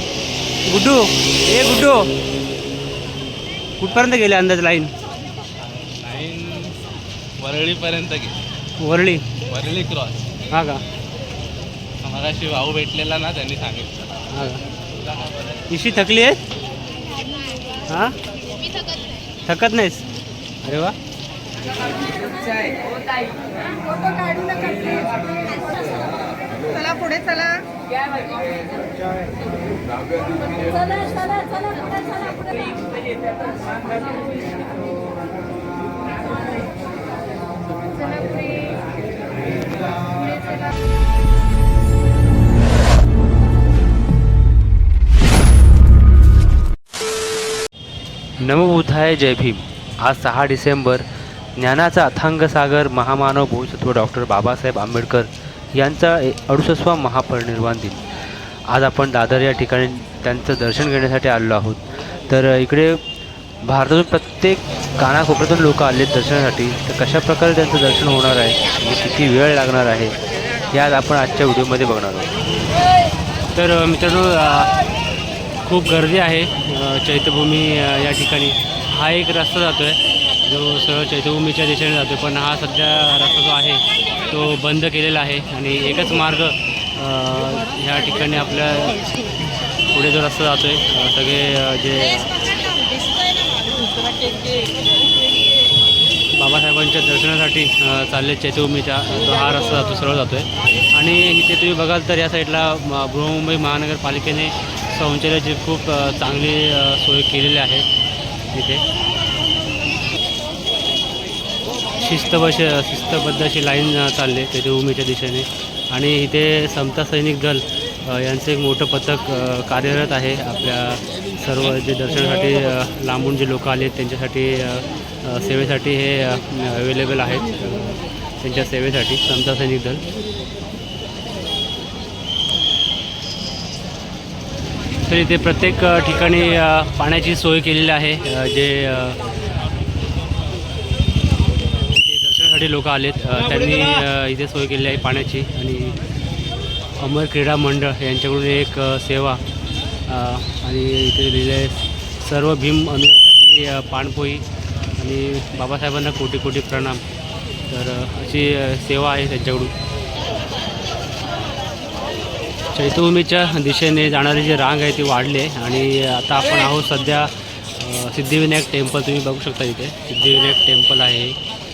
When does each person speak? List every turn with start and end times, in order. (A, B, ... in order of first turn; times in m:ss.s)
0:00.6-0:02.1 A
0:03.8-0:04.9 A
0:06.0-0:06.8 B
0:07.4-0:08.4 B
0:08.8-0:09.3 A
0:09.4-0:10.3 B
0:10.5-0:10.8 A
0:12.0-0:14.1 B
0:14.3-0:14.6 A
0:15.7-0:16.4 A
0:17.9-0:18.2 A
0:19.4-0:20.0 A
0:20.6-0:21.0 A
0:48.4-0:58.0 A
0:58.7-1:03.0 A
1:03.6-1:10.1 A
1:10.7-1:12.3 A
1:13.5-1:14.7 A
1:15.6-1:29.0 A
1:29.9-1:32.3 A
1:36.3-1:47.9 A
1:48.5-1:48.8 A
1:52.0-2:10.0 A
2:15.1-2:19.2 A
2:21.8-2:26.0 A
2:27.0-2:29.4 A
2:30.0-2:34.4 A
2:35.0-2:37.0 A
2:37.7-2:39.7 A
2:42.7-2:51.4 A